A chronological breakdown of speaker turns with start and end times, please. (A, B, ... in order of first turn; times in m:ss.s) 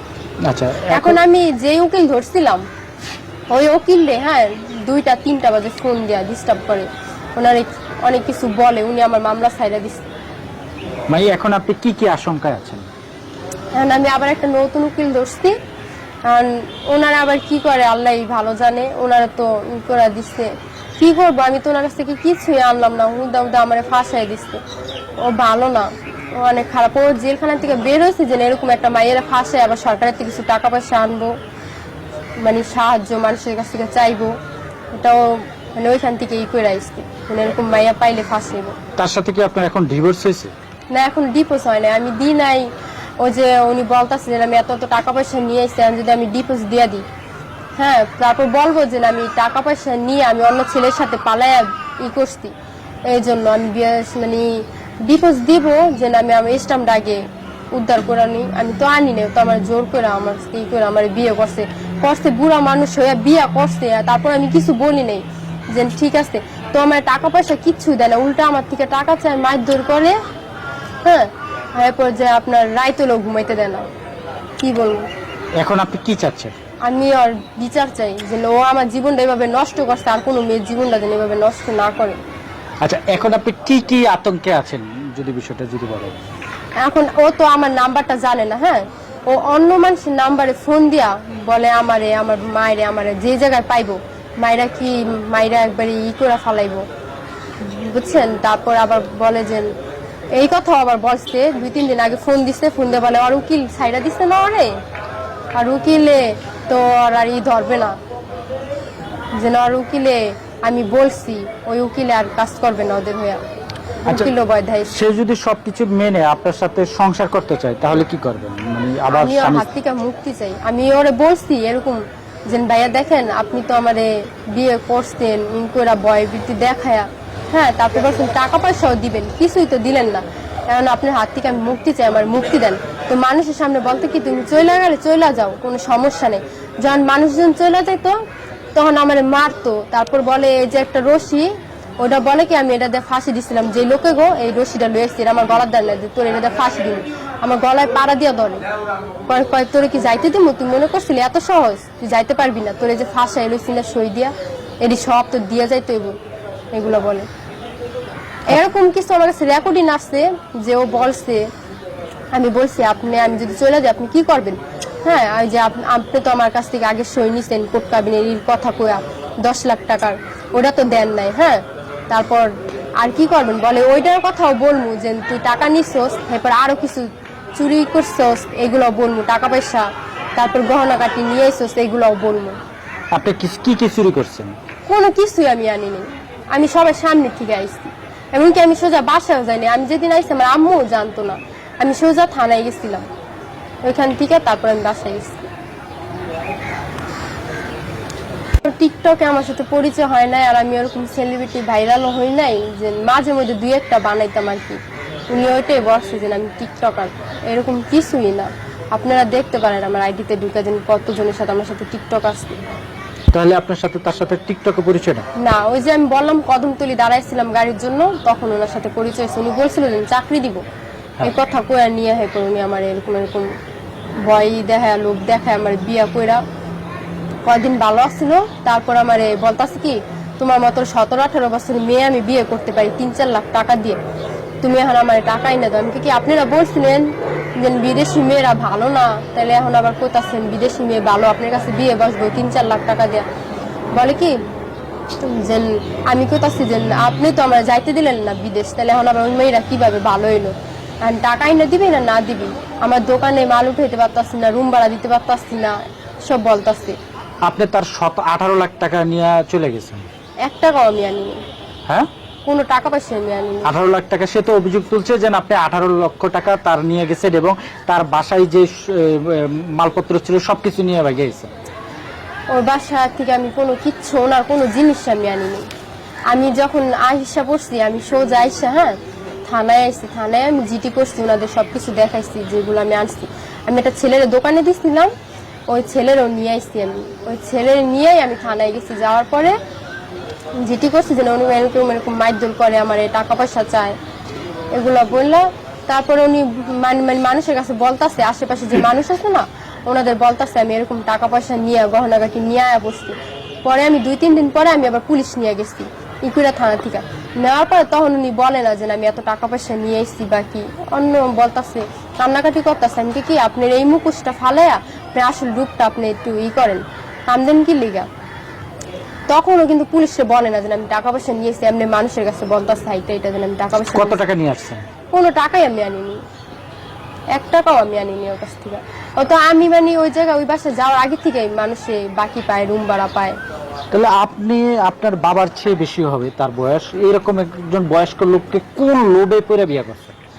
0:00.4-0:01.2 A
0:00.9-0:02.6 B
0:03.5-0:10.0 B
0:11.1-0:12.9 A
0:13.7-0:15.5 B
0:16.2-0:24.6 B
0:25.2-0:31.3 B
0:32.4-0:34.3 B
0:34.9-0:38.8 B
0:39.0-0:40.5 A
0:40.9-0:42.6 B
0:43.2-0:47.0 B
0:47.8-0:52.5 B
0:53.1-0:57.2 B
0:57.7-1:10.1 B
1:11.0-1:13.8 B
1:14.6-1:15.1 B
1:15.6-1:16.5 A
1:16.8-1:22.2 B
1:22.8-1:26.2 A
1:26.8-1:36.8 B
1:37.6-1:39.7 B
1:40.3-1:44.7 B
1:45.6-1:48.0 B
1:49.3-1:53.4 B
1:54.0-1:54.3 A
1:54.0-1:54.9 B
1:54.9-1:59.7 A
1:59.1-2:18.2 B
2:18.7-2:28.6 B
2:29.3-2:36.2 B
2:36.7-2:37.3 B
2:38.5-2:41.4 B
2:42.3-3:02.6 B
3:03.1-3:04.5 A
3:04.9-3:13.0 B
3:13.8-3:15.5 B
3:18.6-3:24.8 B
3:25.3-3:32.6 B
3:33.3-3:35.2 A
3:35.4-3:40.6 B
3:41.2-3:43.5 B
3:44.2-3:46.4 B
3:47.4-3:54.0 B
3:54.6-3:57.1 B
3:57.6-4:03.2 B
4:03.9-4:04.4 B
4:05.2-4:17.0 B
4:17.4-4:20.1 A
4:20.4-4:21.4 B
4:22.4-4:23.7 B
4:23.6-4:31.5 A
4:32.5-4:35.7 B
4:36.3-4:45.1 B
4:45.7-4:49.6 B
4:50.6-4:54.0 B
4:54.7-5:18.1 B
5:19.3-5:24.2 B
5:23.8-5:24.8 A
5:25.1-5:26.2 B
5:27.3-5:33.4 B
5:33.9-5:40.1 A